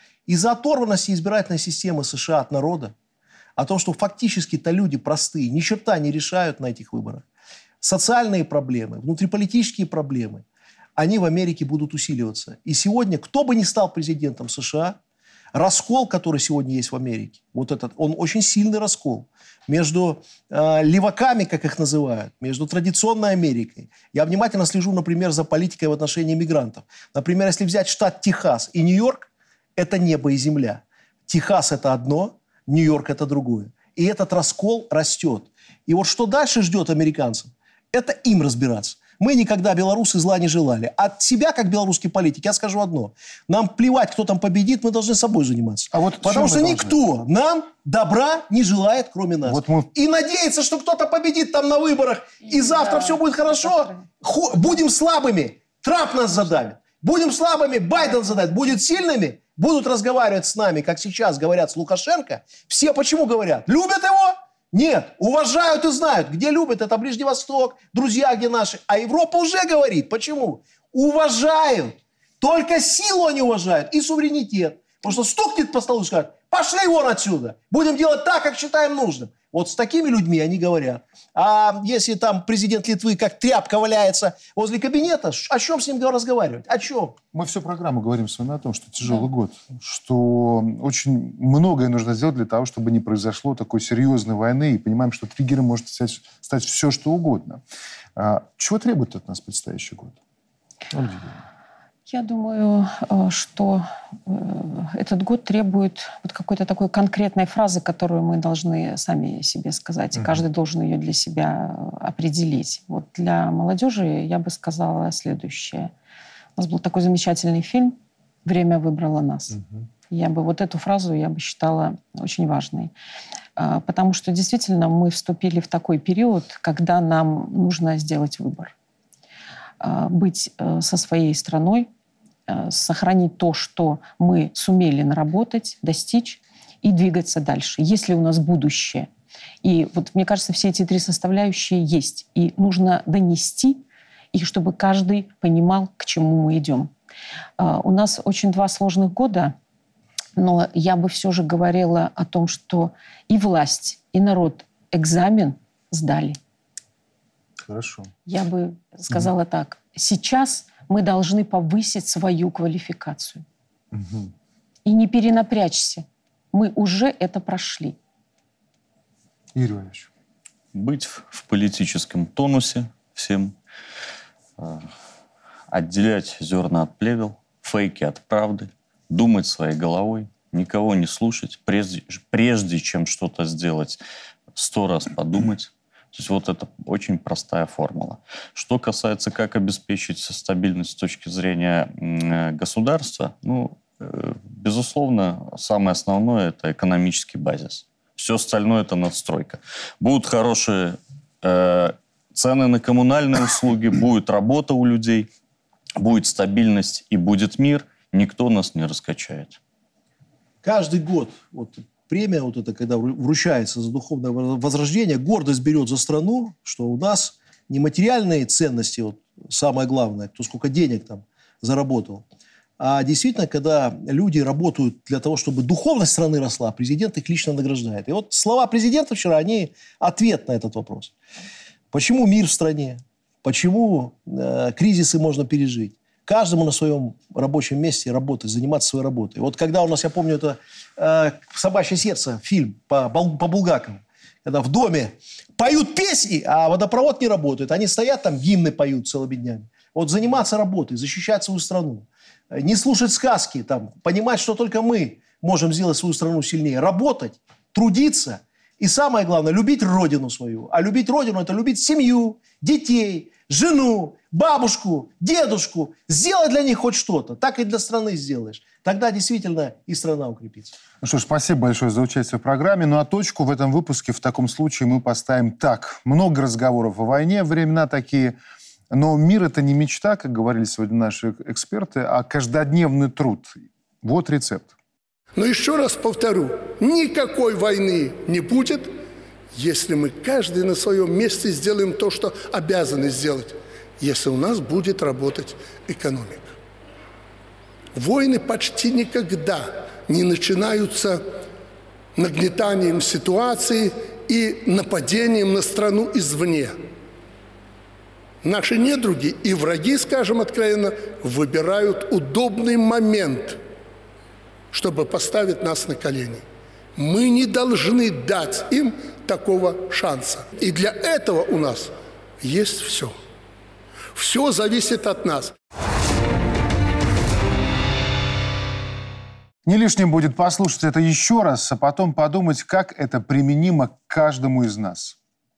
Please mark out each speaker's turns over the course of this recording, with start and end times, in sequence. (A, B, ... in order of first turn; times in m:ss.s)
0:00.3-0:02.9 A
0:03.6-0:07.2 A
0:07.8-0:10.4 A
0:11.0-0:15.0 A
0:15.5-1:27.2 A
0:45.9-0:47.0 B
0:49.4-0:49.9 B
1:27.3-1:37.6 B
1:38.2-1:40.2 B
1:40.9-1:41.4 B
1:42.1-1:55.9 C
1:50.2-1:50.4 B
1:56.6-1:59.6 C
1:59.6-1:59.8 B
2:00.1-2:02.9 C
2:03.6-2:08.7 C
2:09.8-2:11.9 C
2:12.5-2:19.1 C
2:19.6-2:23.8 C
2:24.3-2:26.9 C
2:27.6-2:29.5 C
2:30.4-2:36.4 C
2:37.6-2:38.1 B
2:38.3-2:43.4 C
2:43.9-2:44.3 B
2:44.8-2:48.0 C
2:49.5-2:50.1 B
2:50.7-2:53.6 D
2:54.6-2:54.8 D
2:55.7-3:04.0 D
3:04.5-3:25.3 D
3:26.0-3:29.6 D
3:30.6-3:42.2 A
3:42.8-3:51.1 A
3:51.9-4:30.7 A
4:31.0-4:38.4 B
4:38.9-4:44.7 B
4:45.4-4:49.0 E
4:49.5-4:56.5 E
4:57.9-5:01.2 E
5:02.1-5:06.8 E
5:08.4-5:13.6 E
5:14.7-5:16.4 E
5:17.0-5:23.2 E
5:24.1-5:25.6 E
5:29.6-5:35.2 B